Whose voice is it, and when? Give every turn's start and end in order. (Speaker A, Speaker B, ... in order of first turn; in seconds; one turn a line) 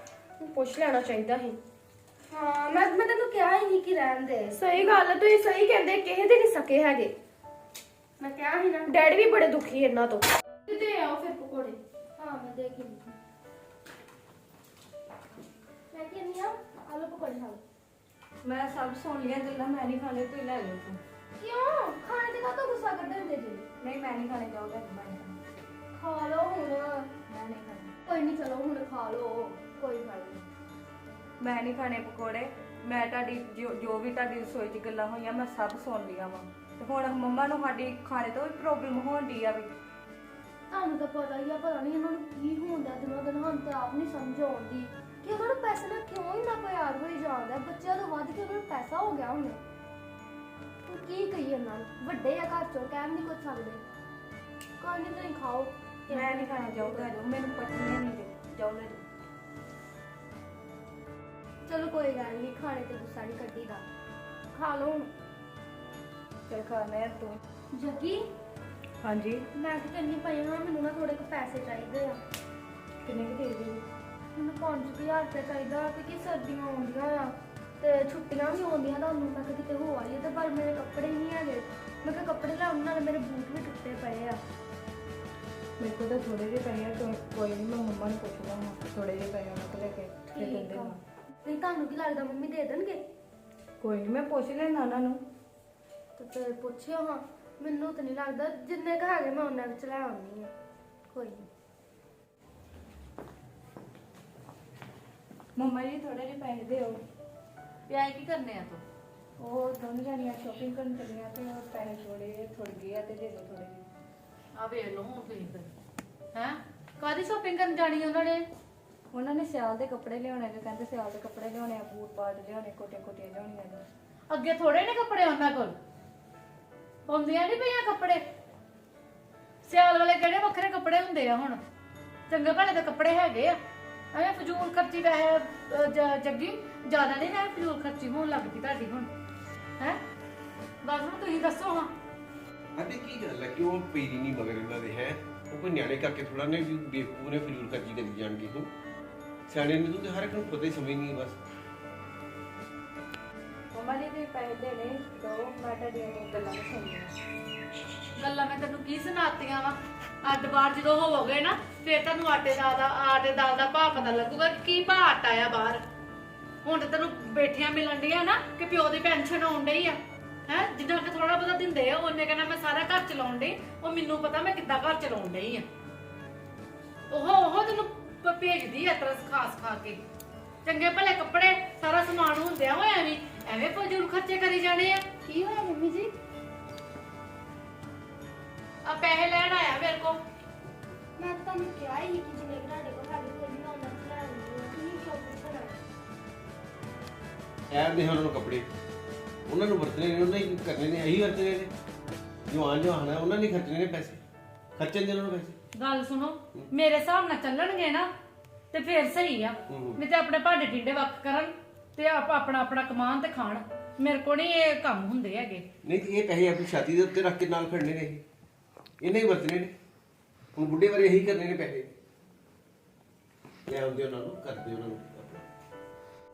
Speaker A: 0.4-1.6
Speaker B: 0.4-1.2
Speaker A: 2.3-6.3
Speaker B: 4.7-7.1
Speaker A: 8.2-9.4
Speaker B: 8.9-10.2
Speaker A: 10.7-13.2
Speaker B: 11.0-11.4
Speaker A: 15.9-17.6
Speaker C: 18.4-21.0
Speaker A: 21.4-23.6
Speaker C: 23.8-25.4
Speaker A: 25.9-27.1
Speaker C: 27.3-27.9
Speaker A: 28.1-30.4
Speaker C: 31.4-39.7
Speaker A: 40.7-49.6
Speaker A: 50.9-53.8
Speaker A: 54.8-57.1
Speaker C: 56.1-59.0
Speaker A: 61.6-63.8
Speaker A: 64.5-65.1
Speaker C: 66.5-67.4
Speaker A: 67.7-68.2
Speaker C: 69.0-69.4
Speaker A: 69.5-72.2
Speaker C: 73.0-73.8
Speaker A: 74.3-84.4
Speaker C: 85.8-91.0
Speaker A: 90.3-93.0
Speaker C: 93.8-95.2
Speaker A: 96.2-100.5
Speaker A: 101.1-101.5
Speaker C: 105.6-107.0
Speaker D: 107.9-108.8
Speaker C: 109.4-113.8
Speaker D: 114.5-115.7
Speaker D: 116.3-118.4
Speaker C: 119.1-123.8
Speaker D: 124.3-125.7
Speaker D: 127.0-128.2
Speaker D: 129.6-131.6
Speaker D: 132.3-133.6
Speaker D: 134.1-139.1
Speaker D: 140.8-141.9
Speaker E: 142.8-148.7
Speaker E: 149.5-151.4
Speaker C: 153.7-157.1
Speaker D: 158.2-165.8
Speaker D: 166.6-175.7
Speaker D: 177.1-180.0
Speaker D: 180.6-185.0
Speaker A: 185.2-186.1
Speaker D: 188.8-190.2
Speaker A: 191.2-195.7
Speaker E: 197.7-198.7
Speaker E: 199.5-201.7
Speaker E: 202.5-204.2
Speaker E: 204.8-205.6
Speaker D: 205.7-208.1
Speaker D: 208.7-215.6
Speaker E: 209.7-210.0
Speaker E: 215.8-218.2
Speaker E: 219.0-219.7
Speaker E: 220.5-221.9
Speaker E: 223.7-225.5